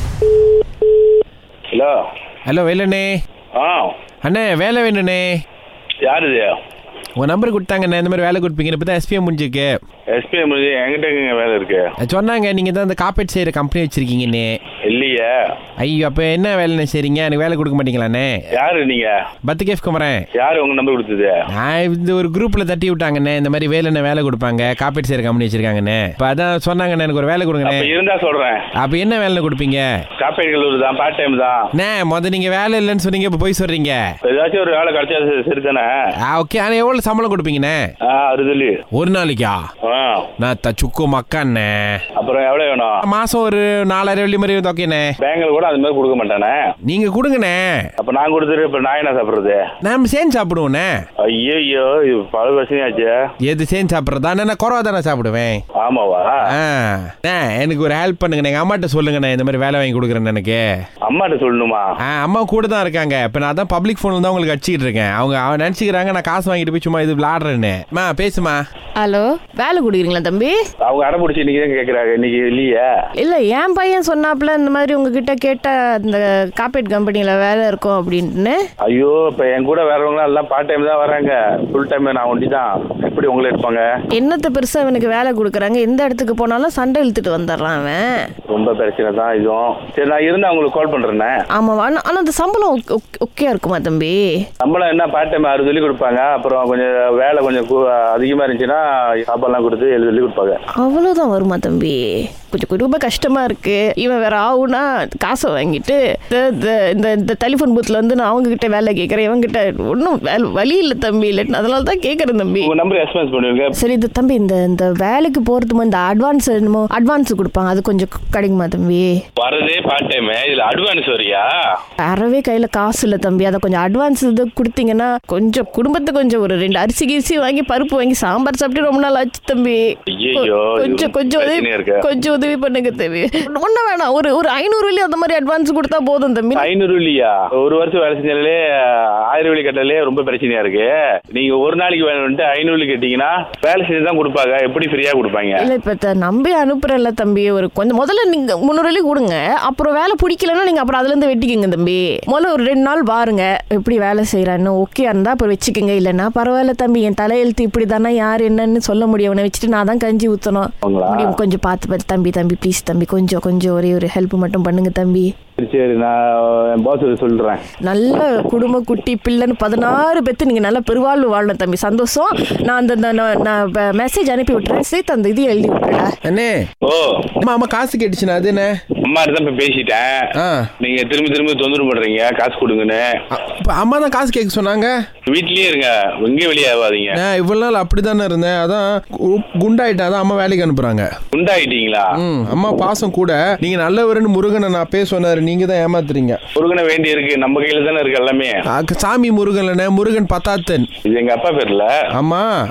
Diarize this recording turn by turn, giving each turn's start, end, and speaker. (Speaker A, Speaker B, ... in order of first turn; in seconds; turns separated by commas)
Speaker A: 2.5-3.2, Speaker B: 3.6-3.9, Speaker A: 4.2-5.4, Speaker B: 6.0-6.6, Speaker A: 7.2-9.7, Speaker B: 10.1-11.9, Speaker A: 12.0-14.5, Speaker B: 14.9-15.3, Speaker A: 15.8-18.4, Speaker B: 18.5-19.1, Speaker A: 19.4-20.2, Speaker B: 20.4-21.4, Speaker A: 21.5-27.9, Speaker B: 27.6-28.6, Speaker A: 28.8-29.8, Speaker B: 30.2-31.6, Speaker A: 31.7-34.0, Speaker B: 34.2-35.9, Speaker A: 36.2-37.9, Speaker B: 38.0-38.8, Speaker A: 38.9-39.6, Speaker B: 39.8-40.2, Speaker A: 40.4-42.0, Speaker B: 42.2-43.0, Speaker A: 43.0-45.1, Speaker B: 45.2-46.7, Speaker A: 46.8-47.9, Speaker B: 48.0-49.6, Speaker A: 49.8-50.9, Speaker B: 51.2-53.1, Speaker A: 53.4-55.6, Speaker B: 55.8-56.5, Speaker A: 56.5-60.6, Speaker B: 61.0-61.8, Speaker A: 62.0-68.6, Speaker C: 69.0-70.6, Speaker B: 70.8-72.9, Speaker C: 73.2-78.6, Speaker B: 78.8-83.8, Speaker C: 84.1-88.2, Speaker B: 88.5-91.3, Speaker C: 91.5-94.4, Speaker B: 94.6-100.6, Speaker C: 100.8-112.7, Speaker B: 112.6-113.7, Speaker C: 113.7-119.2, Speaker B: 119.4-121.5, Speaker C: 122.0-136.7, Speaker B: 130.1-132.0, Speaker B: 136.6-145.7, Speaker C: 145.6-165.3, Speaker B: 160.8-161.4, Speaker B: 165.6-167.6, Speaker C: 167.8-176.1, Speaker A: 176.2-176.7, Speaker B: 176.8-177.2, Speaker A: 177.4-178.8, Speaker B: 179.0-180.2, Speaker A: 180.4-180.7, Speaker B: 180.8-183.1, Speaker A: 183.3-184.9, Speaker B: 185.3-187.2, Speaker A: 187.1-191.1, Speaker B: 191.3-192.1, Speaker A: 192.1-196.4, Speaker B: 196.6-198.6, Speaker A: 198.7-200.9, Speaker B: 201.1-201.9, Speaker A: 202.1-202.5